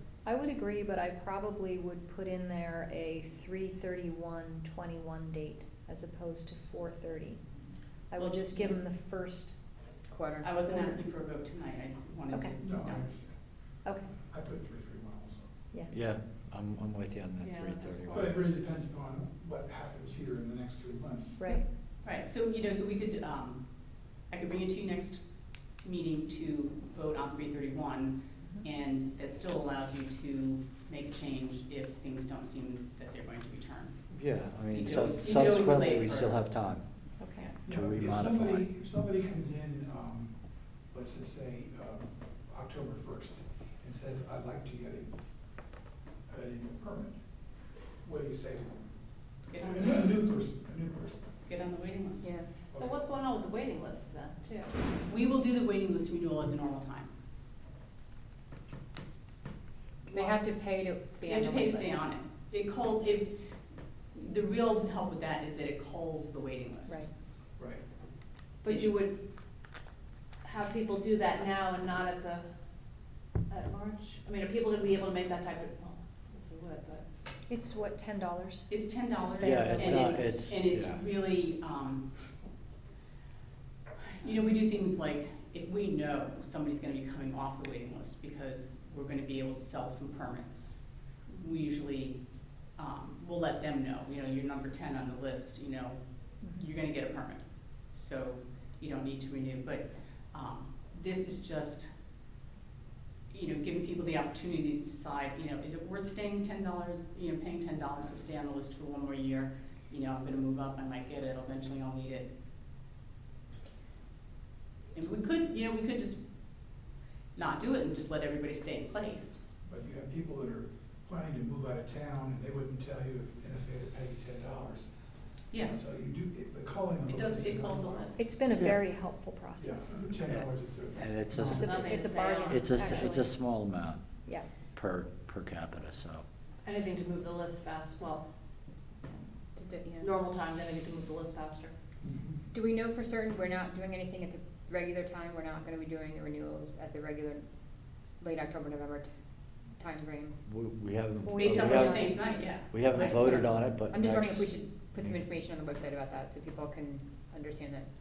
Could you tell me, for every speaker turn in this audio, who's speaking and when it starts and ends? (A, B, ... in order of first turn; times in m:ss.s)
0:00.2-0:07.4 A
0:08.1-0:09.6 A
0:08.2-0:08.8 B
0:10.1-0:11.0 C
0:10.4-0:13.1 B
0:12.6-0:13.4 D
0:13.8-0:14.1 A
0:14.2-0:15.5 D
0:15.9-0:18.3 E
0:17.4-0:18.3 F
0:18.1-0:21.4 D
0:21.4-0:21.7 A
0:22.0-0:34.0 B
0:34.1-0:36.9 E
0:34.7-0:36.6 B
0:37.2-0:37.5 A
0:37.6-0:40.4 D
0:37.7-0:38.7 E
0:40.9-0:45.1 D
0:46.3-0:47.2 D
0:48.0-0:48.8 D
0:49.5-0:50.4 B
0:49.6-0:51.2 D
0:51.4-0:52.3 B
0:52.2-0:52.5 C
0:52.7-0:53.1 D
0:52.8-0:54.8 F
0:55.0-0:57.1 B
1:00.1-1:00.4 B
1:00.1-1:02.0 C
1:01.2-1:03.6 B
1:04.1-1:07.1 B
1:07.6-1:07.8 D
1:08.6-1:09.2 F
1:08.6-1:08.9 B
1:10.4-1:12.5 F
1:13.5-1:17.1 F
1:17.5-1:20.2 A
1:18.7-1:22.3 B
1:19.4-1:21.0 E
1:19.7-1:20.0 F
1:24.1-1:42.0 B
1:43.3-1:52.3 B
1:54.9-1:59.4 B
1:59.6-2:04.9 D
2:05.6-2:08.2 D
2:07.1-2:08.2 B
2:08.2-2:10.0 A
2:09.6-2:11.8 D
2:11.0-2:11.8 E
2:11.5-2:13.3 A
2:11.6-2:13.1 F
2:12.5-2:14.0 E
2:14.7-2:16.2 E
2:16.6-2:18.3 F
2:19.6-2:20.1 C
2:20.0-2:21.7 F
2:22.0-2:22.3 D
2:22.5-2:27.5 C
2:28.2-2:29.1 C
2:29.7-2:30.4 C
2:30.4-2:35.2 E
2:31.2-2:32.7 A
2:31.4-2:33.4 B
2:33.0-2:37.9 C